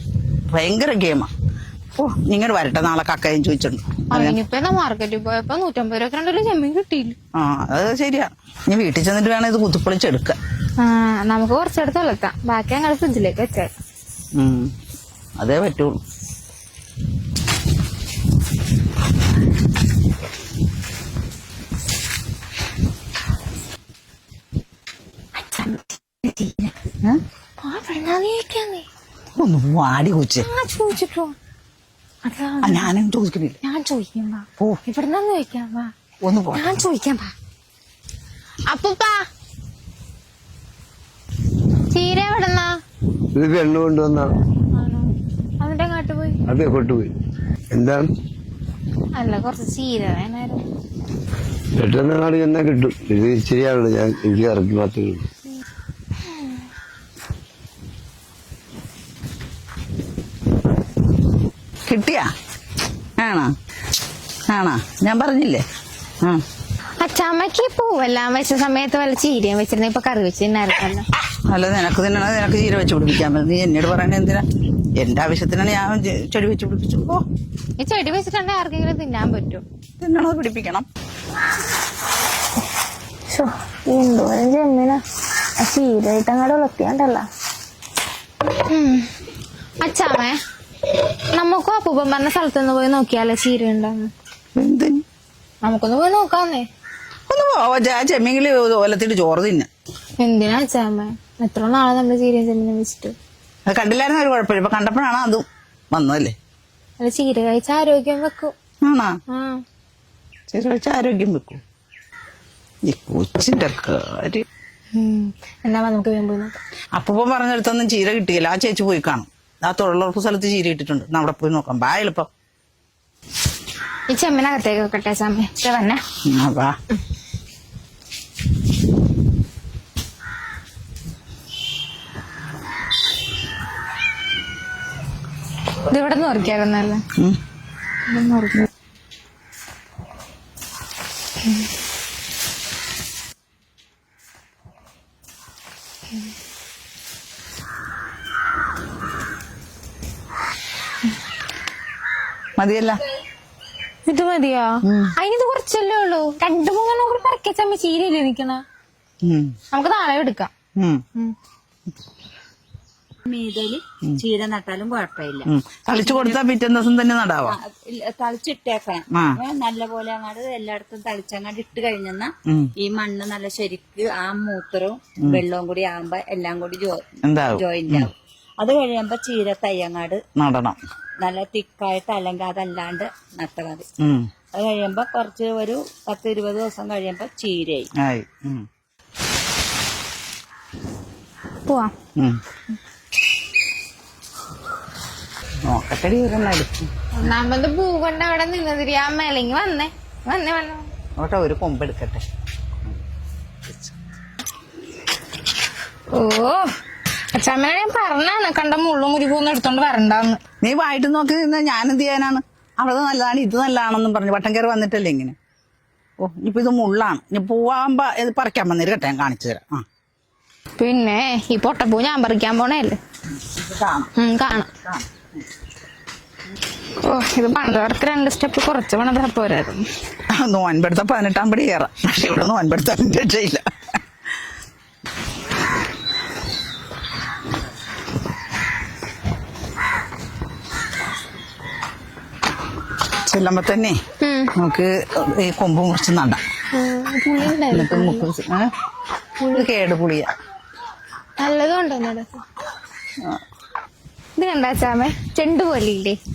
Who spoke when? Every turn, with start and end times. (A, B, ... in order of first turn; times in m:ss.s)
0:00.5-0:01.3 A
0:02.0-0:04.4 A
0:04.1-0:07.2 B
0:07.3-0:10.4 A
0:10.8-0:13.7 B
0:14.4-0:14.7 A
0:15.4-0:16.0 A
0:25.4-0:26.7 B
0:27.6-0:28.9 B
0:29.4-0:30.5 A
0:30.4-0:31.4 B
0:32.2-0:32.9 B
0:32.6-0:33.6 A
0:33.6-0:35.9 B
0:36.2-0:36.8 A
0:36.5-0:37.3 B
0:38.7-0:39.2 B
0:41.9-0:42.8 B
0:43.3-0:44.4 C
0:44.7-0:46.4 B
0:46.4-0:47.1 C
0:47.7-0:48.1 C
0:49.2-0:50.6 B
0:51.8-0:55.3 C
1:01.9-1:02.3 A
1:03.2-1:03.5 A
1:04.5-1:05.6 A
1:07.0-1:11.1 B
1:11.5-1:14.4 A
1:15.0-1:17.2 A
1:17.8-1:19.6 B
1:20.0-1:20.9 A
1:23.3-1:25.0 B
1:25.6-1:27.2 B
1:28.7-1:29.1 B
1:29.8-1:30.4 B
1:31.3-1:34.1 B
1:34.6-1:35.0 A
1:35.6-1:36.6 B
1:37.3-1:39.7 A
1:40.2-1:43.1 B
1:43.7-1:46.3 A
1:47.0-1:48.5 B
1:48.8-1:49.1 A
1:49.3-1:49.6 B
1:50.5-1:51.6 A
1:52.9-1:54.4 A
1:54.9-1:56.6 B
1:56.9-2:02.3 A
2:04.1-2:06.0 B
2:06.2-2:06.8 A
2:15.9-2:17.0 B
2:18.1-2:18.7 B
2:32.6-2:33.0 A
2:34.1-2:38.6 B
2:34.8-2:35.1 A
2:39.2-2:39.5 A
2:39.7-2:40.5 B
2:40.8-2:41.0 A
2:43.2-2:46.4 D
2:45.5-2:47.6 A
2:47.5-3:00.2 D
2:49.1-2:49.4 A
2:57.2-2:58.1 A
3:00.4-3:00.8 A
3:01.2-3:03.9 D
3:04.0-3:04.2 A
3:04.5-3:07.9 D
3:08.0-3:08.6 A
3:11.7-3:11.9 B
3:15.7-3:16.7 A
3:17.1-3:20.9 B
3:21.2-3:22.2 A
3:23.7-3:23.9 A
3:26.1-3:26.7 B
3:27.3-3:30.4 B
3:30.6-3:35.4 A
3:36.2-3:39.8 A
3:40.8-3:43.0 B
3:43.4-3:44.1 A
3:44.2-3:44.7 B
3:44.7-3:45.1 A
3:47.0-3:49.9 B
3:50.3-3:53.6 A
4:03.2-4:04.0 A
4:04.2-4:04.5 B
4:04.6-4:06.4 A
4:06.7-4:08.3 B
4:07.7-4:08.7 A
4:09.4-4:09.7 B
4:09.5-4:10.3 A
4:11.4-4:12.4 B
4:14.4-4:16.2 B